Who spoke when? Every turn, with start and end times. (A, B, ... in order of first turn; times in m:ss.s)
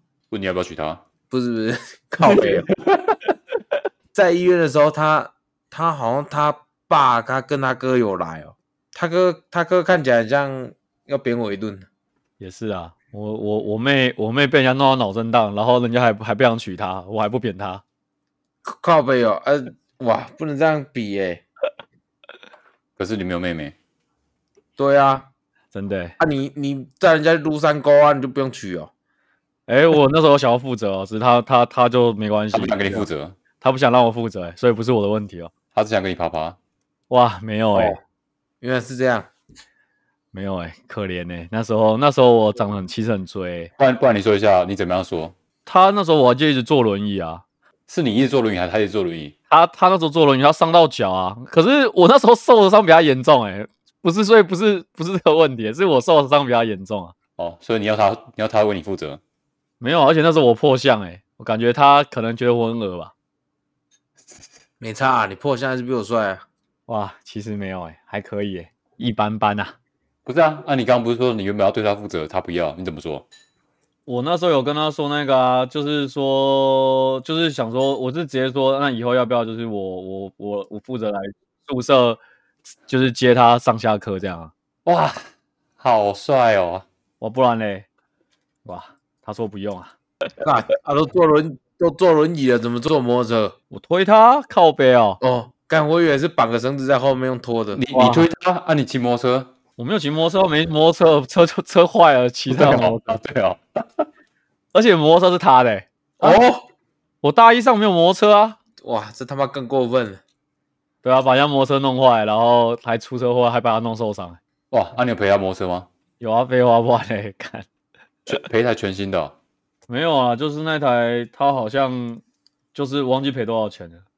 0:00.3-0:01.0 A
0:01.3-0:02.7 B
0:02.3-0:03.2 A
0:04.1-0:11.9 B
0:12.4-0:17.8 C
0:18.6-0:21.4 B
0:23.0-0:23.8 A
0:24.8-0:25.3 B
0:25.7-0:26.1 C
0:26.2-0:28.9 B
0:29.7-0:33.1 C
0:32.5-0:33.4 A
0:33.6-0:35.5 C
0:35.7-0:36.6 A
0:37.1-0:38.0 C
0:37.7-0:38.0 B
0:38.6-0:39.3 B
0:40.3-0:43.7 C
0:43.8-0:45.4 A
0:45.6-0:47.4 C
0:47.9-0:49.4 A
0:49.5-0:57.1 C
0:57.4-0:59.2 A
0:59.8-1:03.1 C
1:04.8-1:06.4 B
1:06.9-1:09.7 C
1:10.2-1:13.2 A
1:14.1-1:22.2 C
1:22.9-1:24.5 C
1:24.8-1:25.2 A
1:25.8-1:26.8 A
1:27.2-1:27.9 C
1:28.6-1:29.9 C
1:30.4-1:33.6 B
1:33.7-1:35.2 C
1:35.2-1:37.8 B
1:37.7-1:39.5 A
1:37.9-1:38.3 C
1:39.8-1:43.2 C
1:42.5-1:44.1 A
1:44.7-1:46.4 C
1:46.2-1:46.6 B
1:47.2-1:48.6 C
1:48.8-1:50.2 B
1:51.0-1:54.4 C
1:54.7-1:55.9 A
1:56.2-1:57.7 C
1:58.3-1:59.4 A
1:59.9-2:02.2 C
2:02.7-2:04.0 C